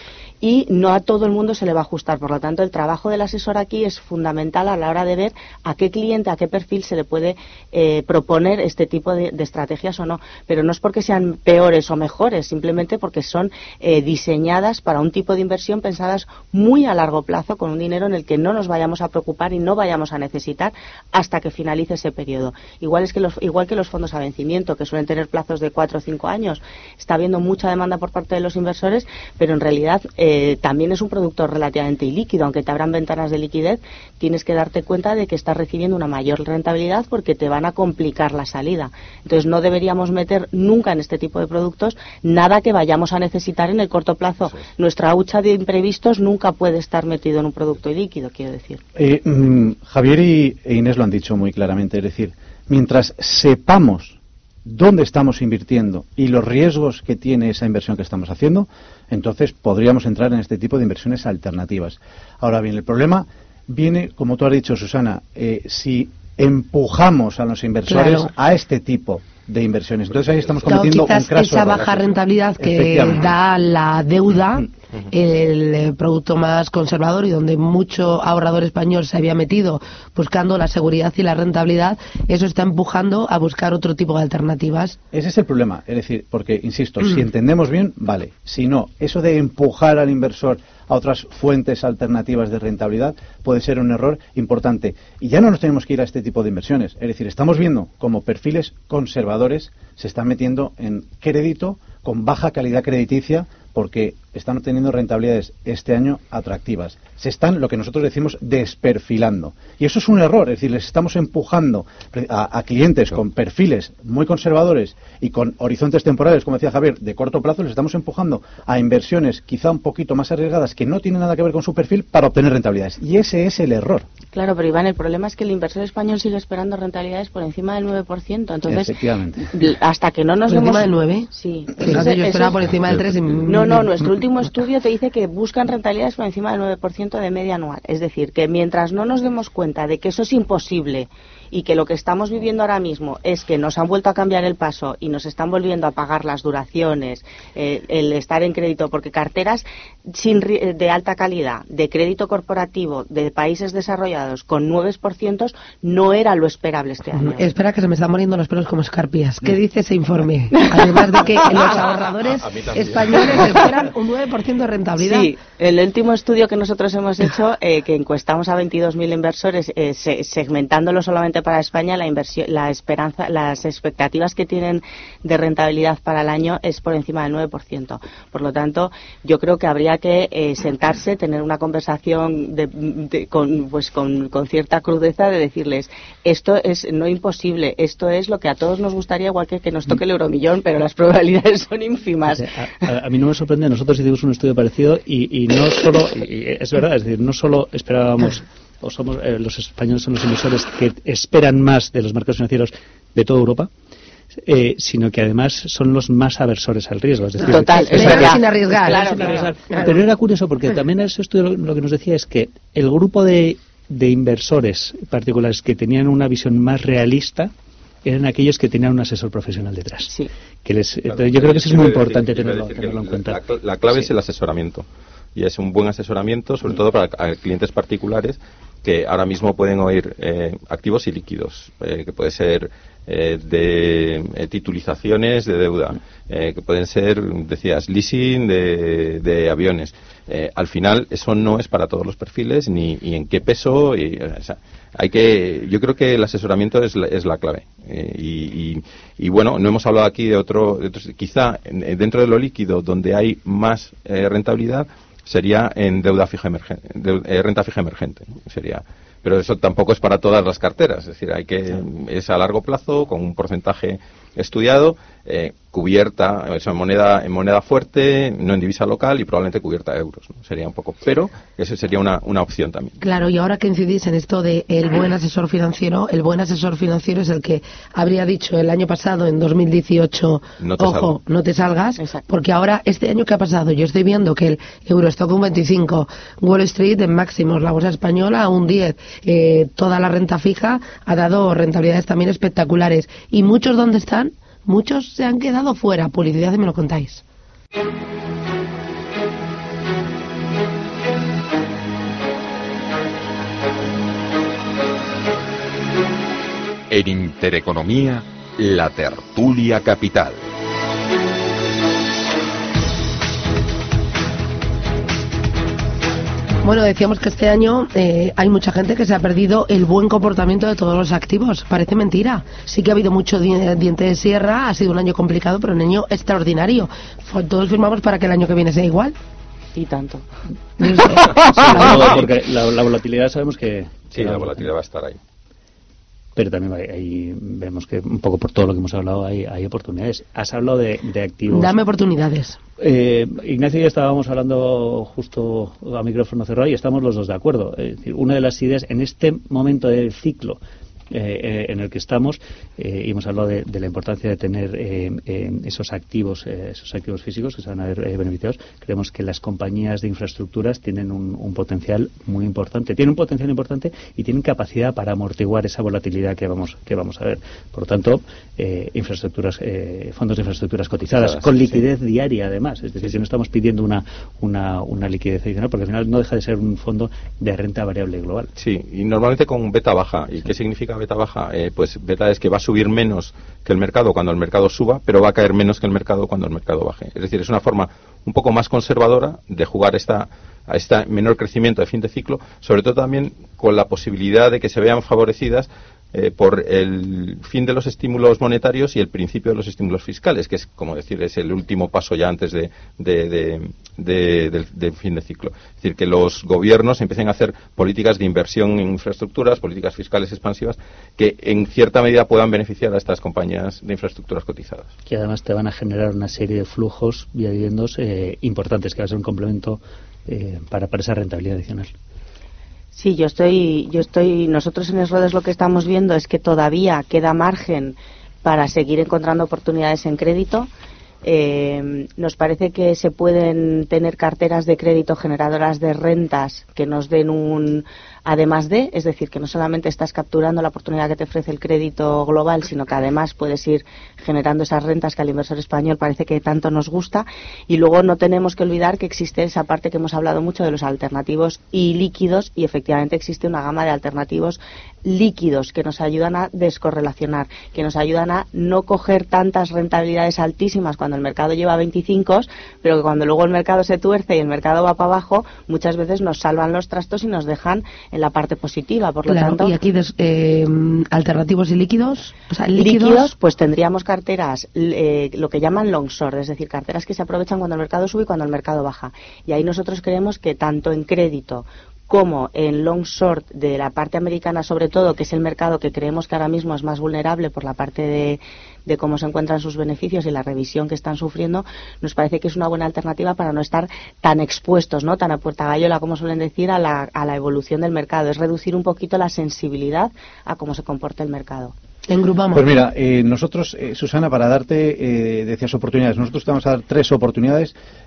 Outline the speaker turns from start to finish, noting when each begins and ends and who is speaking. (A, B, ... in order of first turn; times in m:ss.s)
0:00.4-0:48.8 A
0:49.0-1:11.9 B
1:07.9-1:08.3 C
1:10.7-1:25.0 C
1:12.6-1:13.3 B
1:25.1-2:04.1 B
2:04.3-2:12.6 A
2:08.7-2:09.6 B
2:10.5-2:13.9 C
2:13.5-2:37.5 A
2:37.2-2:45.3 C
2:40.6-2:41.7 A
2:42.6-2:43.3 D
2:45.0-3:12.5 A
3:12.3-3:23.7 E
3:24.4-3:37.5 E
3:27.4-3:29.5 A
3:27.9-3:29.2 C
3:38.0-3:40.1 E
3:40.6-3:43.4 E
3:41.1-4:33.0 D
4:33.0-4:57.2 C
4:40.6-4:41.1 D
4:42.0-4:42.2 A
5:06.9-5:10.4 F
5:16.6-5:29.2 C
5:29.7-5:30.3 A
5:30.8-5:31.4 C
5:31.5-5:34.7 E
5:31.9-5:32.2 D
5:34.1-5:35.2 D
5:36.4-5:41.8 E
5:41.5-5:42.6 C
5:42.8-5:50.6 E
5:51.1-6:18.5 E
6:11.2-6:11.8 D
6:18.6-6:54.9 D
6:55.1-7:01.9 E
7:02.9-7:10.7 A
7:11.2-7:49.8 A
7:49.3-7:53.3 C
7:52.8-8:21.8 A
8:22.1-8:22.7 C
8:22.5-8:27.7 B